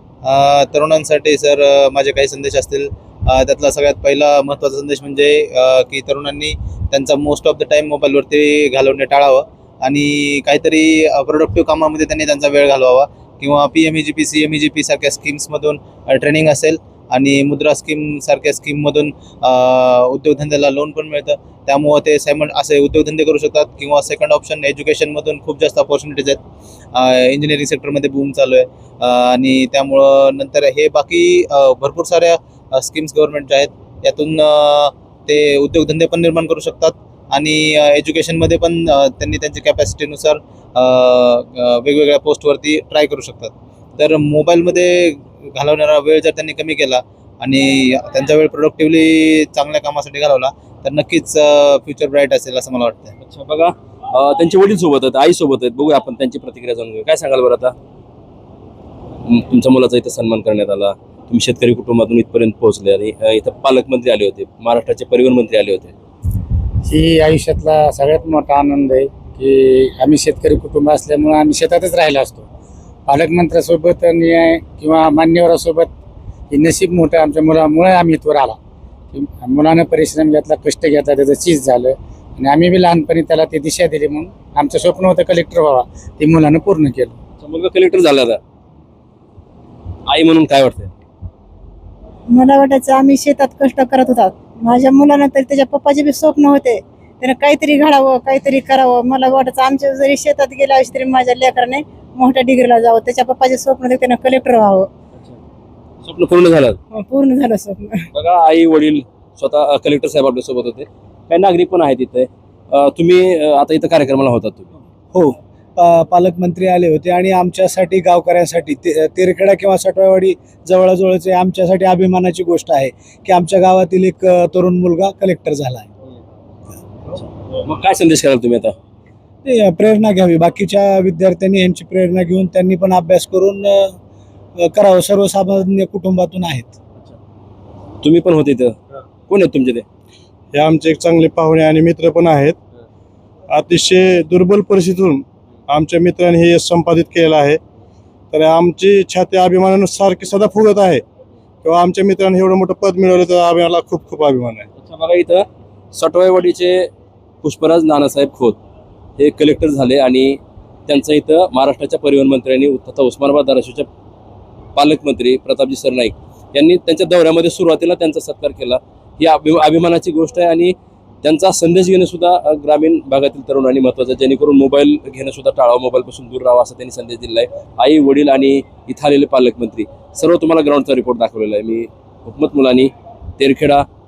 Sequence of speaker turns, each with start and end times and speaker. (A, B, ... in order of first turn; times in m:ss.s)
0:00.2-0:26.4 A
0:26.9-0:53.1 A
0:53.2-0:57.7 B
0:59.3-1:05.9 B
1:06.9-1:12.4 C
1:13.1-1:15.9 C
1:16.5-1:18.6 C
1:19.1-1:27.1 C
1:27.4-1:28.4 B
1:30.1-1:30.9 B
1:32.3-1:44.9 D
1:46.0-1:46.8 B
1:46.9-1:48.1 D
1:48.1-1:54.7 B
1:55.1-2:05.9 E
2:07.6-2:08.7 B
2:09.4-2:13.9 E
2:14.6-2:16.7 E
2:18.0-2:19.8 B
2:20.5-2:22.6 F
2:23.5-2:27.6 F
2:28.3-2:31.0 F
2:31.6-2:34.7 F
2:34.8-2:36.9 B
2:37.4-2:38.6 B
2:39.2-2:43.9 B
2:44.8-3:03.8 B